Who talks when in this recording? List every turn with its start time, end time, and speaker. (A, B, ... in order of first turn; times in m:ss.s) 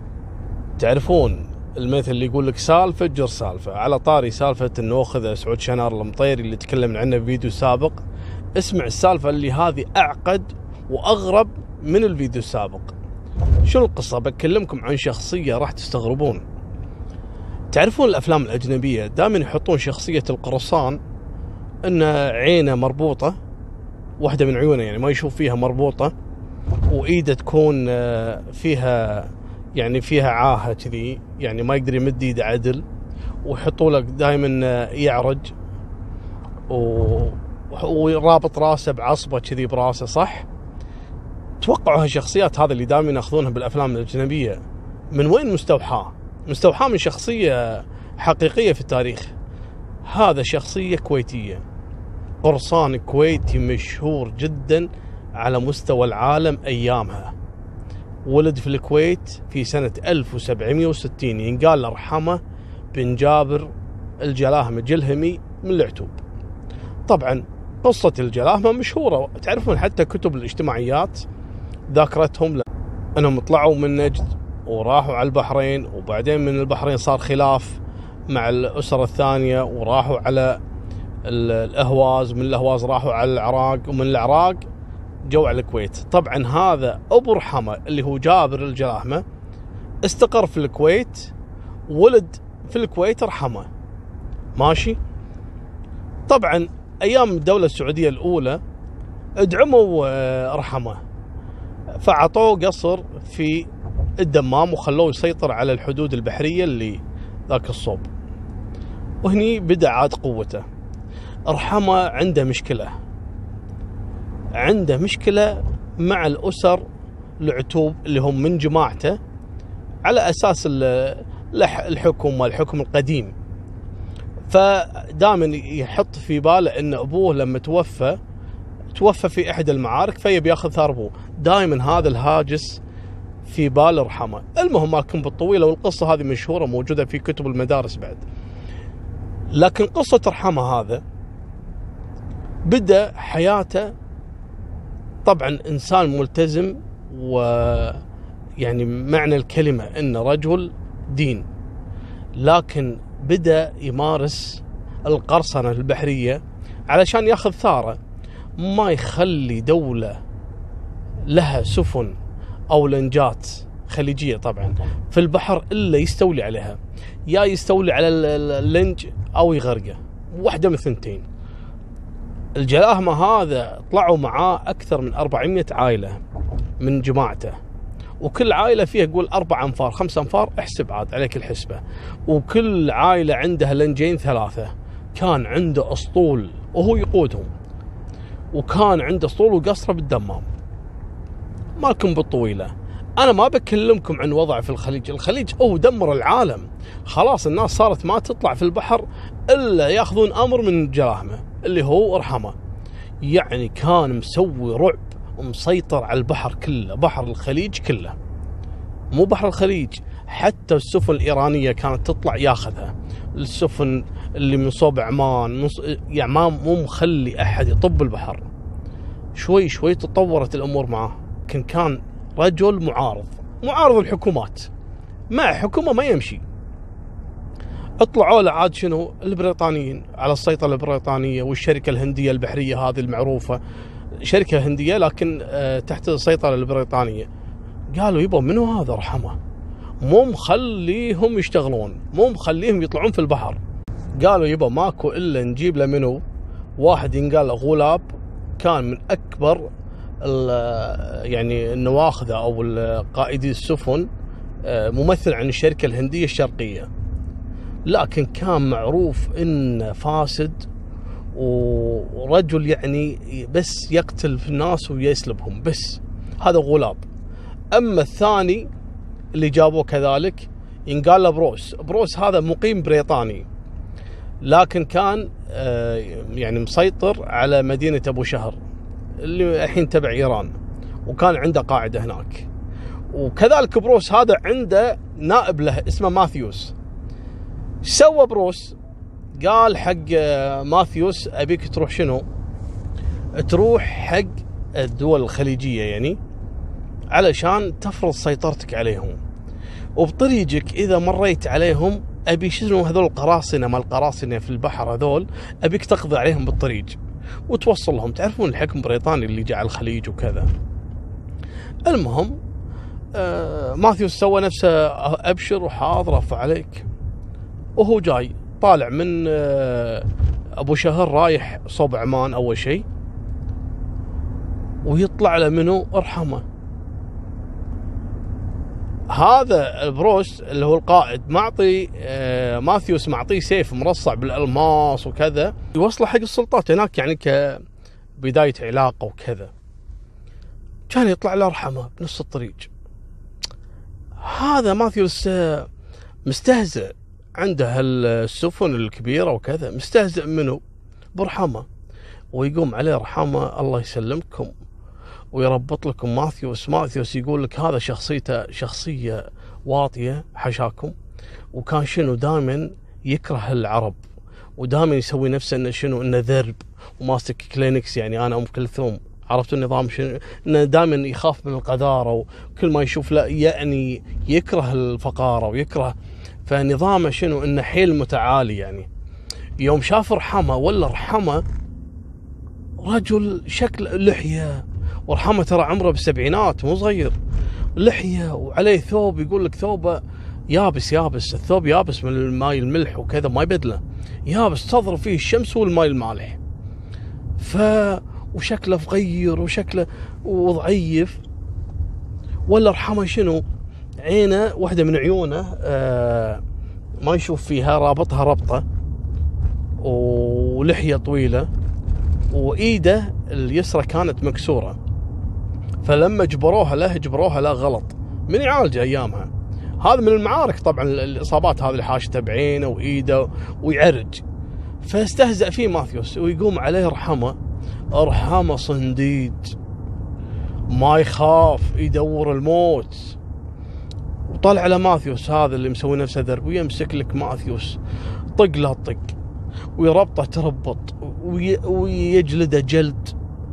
0:00.8-0:08.0 A
0:08.6-0:12.9 A
0:13.6-0:16.4 A
0:17.7-0:21.0 A
0:21.8-0:23.3 A
0:24.2-0:26.1 A
0:26.9-0:32.8 A
0:33.4-0:35.5 A
0:36.7-0:40.5 A
0:41.6-0:44.6 A
0:45.1-0:49.3 A
0:50.0-0:51.6 A
0:52.4-0:57.3 A
0:58.2-1:02.4 A
1:02.9-1:06.2 A
1:07.1-1:11.2 A
1:11.9-1:12.6 A
1:13.2-1:20.6 A
1:21.2-1:24.6 A
1:25.2-1:29.2 A
1:30.0-1:31.3 A
1:31.9-1:33.7 A
1:34.5-1:35.0 A
1:36.3-1:38.6 A
1:39.4-1:41.0 A
1:42.0-1:48.1 A
1:49.2-1:50.6 A
1:51.5-1:52.9 A
1:54.6-1:56.8 A
1:57.4-1:59.2 A
2:00.0-2:03.3 A
2:04.5-2:08.2 A
2:08.9-2:12.8 A
2:13.4-2:18.2 A
2:19.5-2:21.0 A
2:22.6-2:23.9 A
2:25.2-2:28.0 A
2:28.6-2:31.4 A
2:32.4-2:38.0 A
2:38.6-2:40.2 A
2:41.3-2:42.2 A
2:42.7-2:51.2 A
2:52.6-2:56.2 A
2:56.8-2:57.6 A
2:58.2-3:07.5 A
3:08.5-3:10.5 A
3:11.8-3:22.5 A
3:23.2-3:28.2 A
3:29.1-3:38.5 A
3:39.4-3:44.7 A
3:45.3-3:46.4 A
3:48.0-3:53.6 A
3:54.2-3:57.3 A
3:57.9-3:59.4 A
4:00.0-4:03.6 A
4:04.2-4:06.2 A
4:06.8-4:08.0 A
4:08.6-4:09.7 A
4:10.2-4:14.1 A
4:14.6-4:16.9 A
4:17.8-4:20.6 A
4:21.3-4:27.0 A
4:27.7-4:28.7 A
4:29.3-4:33.4 A
4:34.4-4:38.6 A
4:39.2-4:40.5 A
4:41.0-4:42.5 A
4:43.1-4:46.7 A
4:47.8-4:48.8 A
4:49.4-4:52.2 A
4:53.4-4:56.2 A
4:57.1-4:59.2 A
5:00.0-5:07.0 A
5:07.5-5:10.5 A
5:11.8-5:12.4 A
5:13.1-5:16.9 A
5:17.8-5:20.1 A
5:20.6-5:22.8 A
5:24.8-5:26.4 A
5:29.1-5:37.6 A
5:38.2-5:39.5 A
5:40.9-5:42.7 A
5:44.2-5:45.7 A
5:46.2-5:50.6 A
5:51.1-5:51.6 A
5:52.3-5:54.5 A
5:55.3-6:00.9 A
6:01.5-6:04.0 A
6:04.6-6:15.9 A
6:16.4-6:18.9 A
6:19.6-6:21.4 A
6:22.8-6:27.2 A
6:27.8-6:36.4 A
6:37.4-6:41.2 A
6:42.5-6:43.4 A
6:44.0-6:46.4 A
6:47.0-6:48.6 A
6:49.8-6:51.5 A
6:52.3-6:54.8 A
6:55.8-7:04.2 A
7:04.8-7:07.4 A
7:07.9-7:09.6 A
7:10.7-7:13.2 A
7:14.3-7:17.8 A
7:18.3-7:19.1 A
7:19.8-7:23.2 A